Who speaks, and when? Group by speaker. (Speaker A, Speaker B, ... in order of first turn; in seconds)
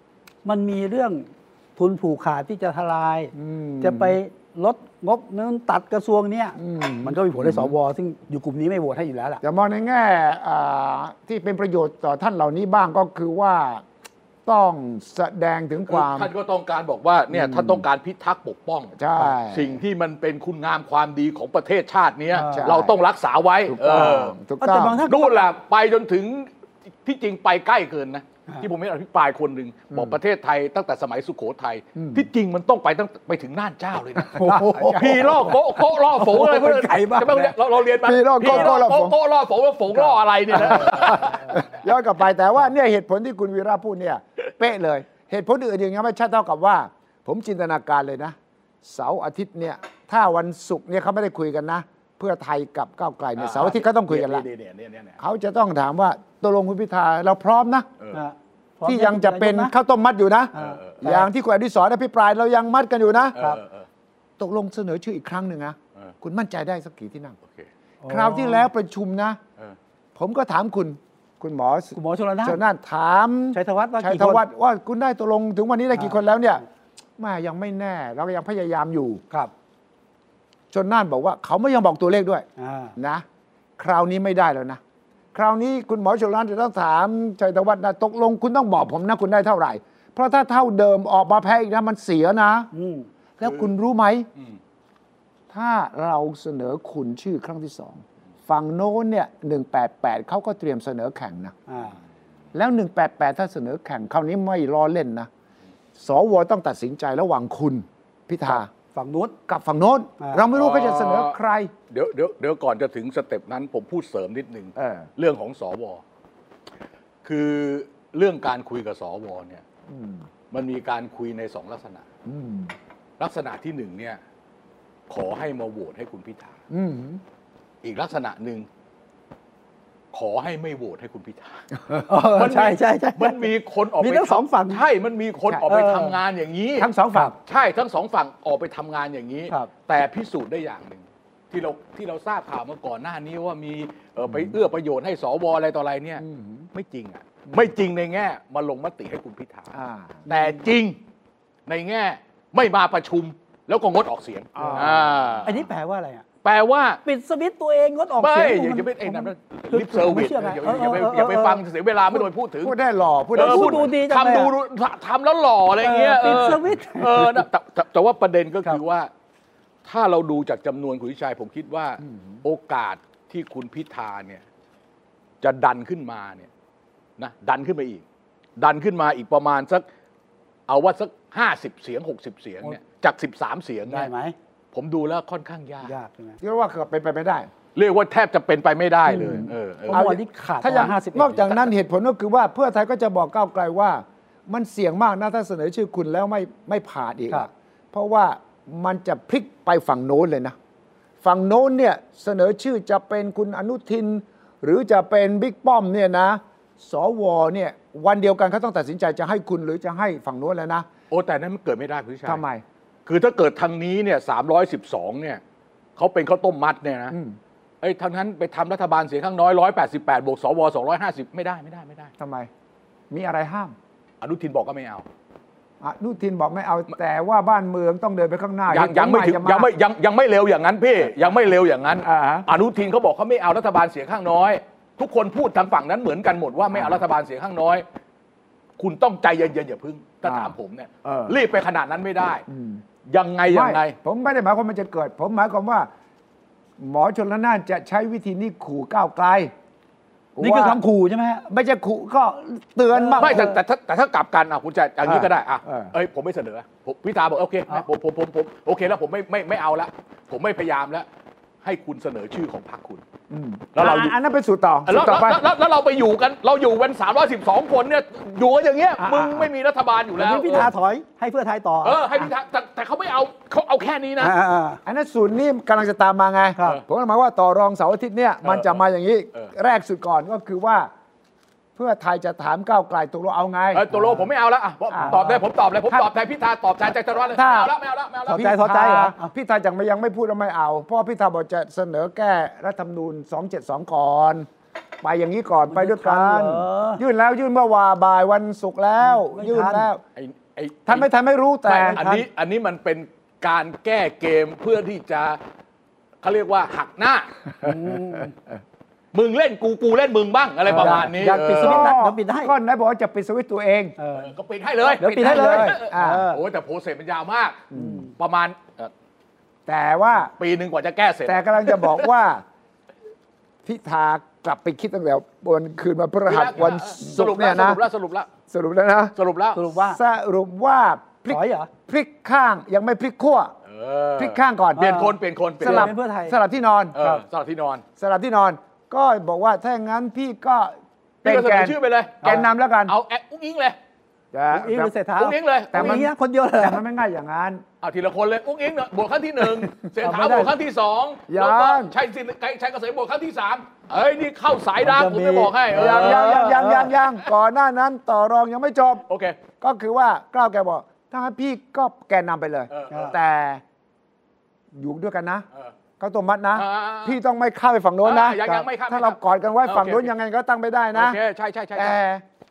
Speaker A: 0.4-9.4, 22.3-22.8, 23.9-25.5, 34.3-35.5, 36.1-37.5, 41.0-41.6, 58.1-59.7, 60.5-61.3, 68.0-68.7, 71.9-72.6, 73.5-74.4, 82.6-82.9, 92.7-93.1, 101.7-102.0, 108.9-109.3, 132.0-134.8, 135.7-136.2, 155.4-156.2, 157.0-161.6, 163.3-164.5, 165.8-167.4, 183.9-184.3, 185.8-186.4, 189.1-191.7, 250.4-251.4, 252.9-253.6, 270.2-272.0, 274.2-274.8, 285.0-285.3, 288.3-289.3, 295.7-297.0, 299.0-299.9, 301.7-302.2, 307.6-308.3, 310.7-312.5, 314.0-314.3, 315.0-316.4, 317.7-318.1, 329.5-330.0, 331.3-331.7, 334.8-336.4, 336.9-337.2, 344.5-346.8, 350.0-350.5, 354.8-356.9, 362.9-363.1
Speaker B: 3.3-4.2, 6.6-7.7, 9.4-13.8, 14.4-16.3, 17.3-17.8, 18.9-19.8, 22.5-22.9, 23.7-25.0, 31.9-32.2, 34.3-35.5, 38.0-39.1, 40.5-54.5, 55.2-57.9, 58.8-63.4, 64.4-67.3, 68.1-69.4, 70.2-76.6, 77.2-79.2, 80.7-82.5, 83.0-83.2, 83.8-84.8, 85.3-92.7, 93.4-94.3, 95.5-101.6, 102.5-105.3, 106.0-108.7, 109.5-111.7, 114.8-115.1, 119.9-120.3, 122.2-122.7, 126.7-127.2, 136.8-137.3, 144.2-144.6, 146.2-146.7, 149.7-150.3, 154.6-155.4, 162.6-163.9, 172.0-172.4, 186.4-187.5, 189.2-200.6, 201.2-210.9, 212.2-212.6, 217.1-217.4, 222.2-222.5, 223.1-223.7, 225.8-229.7, 232.0-232.5, 236.7-237.0, 240.2-241.4, 242.5-242.8, 243.5-245.9, 246.8-249.5, 250.3-250.8, 251.4-253.5, 255.0-255.9, 263.3-265.4, 269.0-269.5, 274.9-280.9, 281.8-283.9, 284.9-286.1, 287.2-287.7, 288.3-294.5, 295.0-300.0, 300.9-302.0, 310.7-313.9, 314.9-316.3, 317.7-318.1, 319.7-320.3, 321.2-322.4, 323.6-327.8, 328.5-329.1, 329.8-333.5, 334.2-335.0, 335.6-336.9, 338.0-342.9, 344.3-344.9, 345.7-347.6, 351.3-351.9, 355.7-359.0, 359.6-363.6, 364.7-365.4, 366.0-371.2, 371.7-372.2
Speaker C: 15.9-24.4, 25.1-26.5, 27.0-34.4, 35.0-41.7, 53.4-55.2, 60.5-61.0, 63.3-63.9, 93.4-93.7, 110.5-111.3, 111.9-116.0, 117.2-119.6, 120.5-122.0, 123.2-124.2, 125.1-126.5, 127.8-128.7, 130.1-131.7, 132.3-149.7, 150.3-151.0, 151.7-155.6, 156.4-157.0, 158.2-162.8, 163.3-169.1, 169.8-174.4, 175.4-176.5, 177.2-178.0, 178.6-179.8, 180.7-184.1, 184.7-185.9, 187.7-190.0, 211.1-212.4, 213.1-215.4, 216.0-217.2, 217.8-222.1, 224.2-225.1, 228.7-237.8, 238.8-242.4, 243.1-243.9, 253.2-261.1, 261.6-263.0, 263.7-264.1, 264.9-270.7, 271.8-274.3, 278.4-278.8, 283.7-288.5, 300.1-301.1, 301.7-305.4, 306.2-307.3, 309.1-311.9, 314.1-318.9, 320.3-322.1, 326.2-328.3, 329.1-329.6, 333.6-335.9, 336.9-337.8, 341.2-343.8, 345.1-346.1, 347.8-356.7, 359.1-359.4, 362.7-363.2, 366.5-367.2, 368.0-370.1, 370.9-372.0